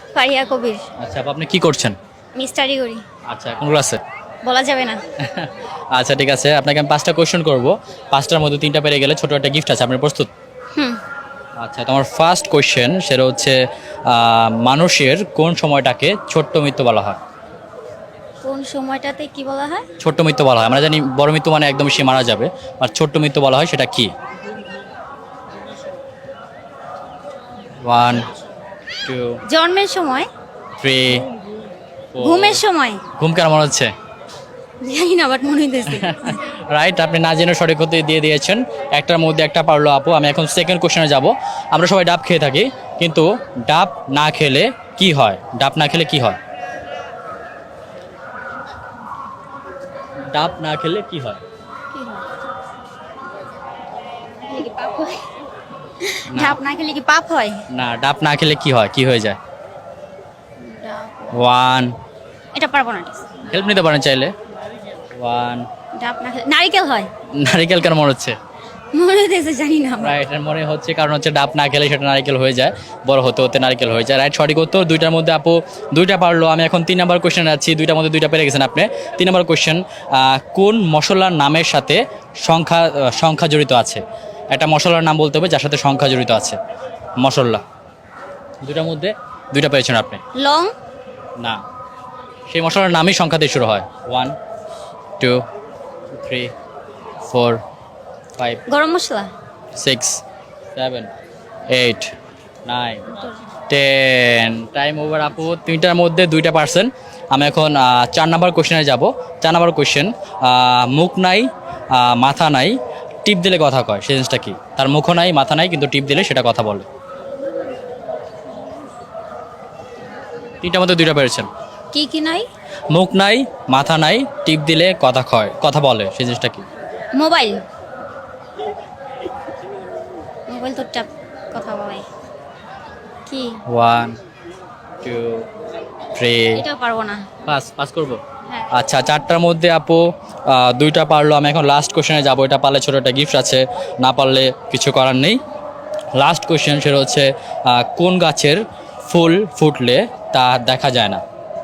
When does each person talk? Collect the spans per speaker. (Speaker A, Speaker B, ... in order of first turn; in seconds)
Speaker A: 0.1-0.9, 2.4-3.0, 4.4-5.0, 10.8-11.0, 18.4-19.9, 29.5-30.3, 32.2-33.0, 34.8-36.5, 51.9-52.3, 54.4-55.3, 56.0-57.6, 60.6-61.4, 62.5-63.4, 66.0-67.1, 68.9-70.2, 90.3-90.7, 98.7-99.3, 121.9-122.5, 127.1-127.6, 130.5-132.1, 133.3-133.6, 136.6-137.3, 138.5-138.8
Speaker B: 1.0-2.0, 3.3-4.0, 5.2-10.3, 11.6-17.2, 20.0-24.1, 27.8-28.3, 29.0-29.4, 30.8-31.3, 32.1-32.6, 33.2-33.9, 35.9-46.4, 50.3-51.4, 56.3-56.6, 57.7-59.4, 61.3-62.0, 63.4-64.3, 65.1-65.7, 67.4-68.4, 70.0-86.6, 87.2-87.6, 88.6-90.2, 92.5-94.4, 95.2-95.4, 96.1-96.5, 97.3-97.6, 98.4-98.6, 99.8-100.2, 100.8-101.1, 101.7-102.1, 102.7-103.2, 103.7-116.9, 120.6-121.5, 122.9-126.7, 133.7-134.2, 135.0-135.5, 136.2-136.6, 137.4-138.2, 138.7-145.4, 146.2-151.2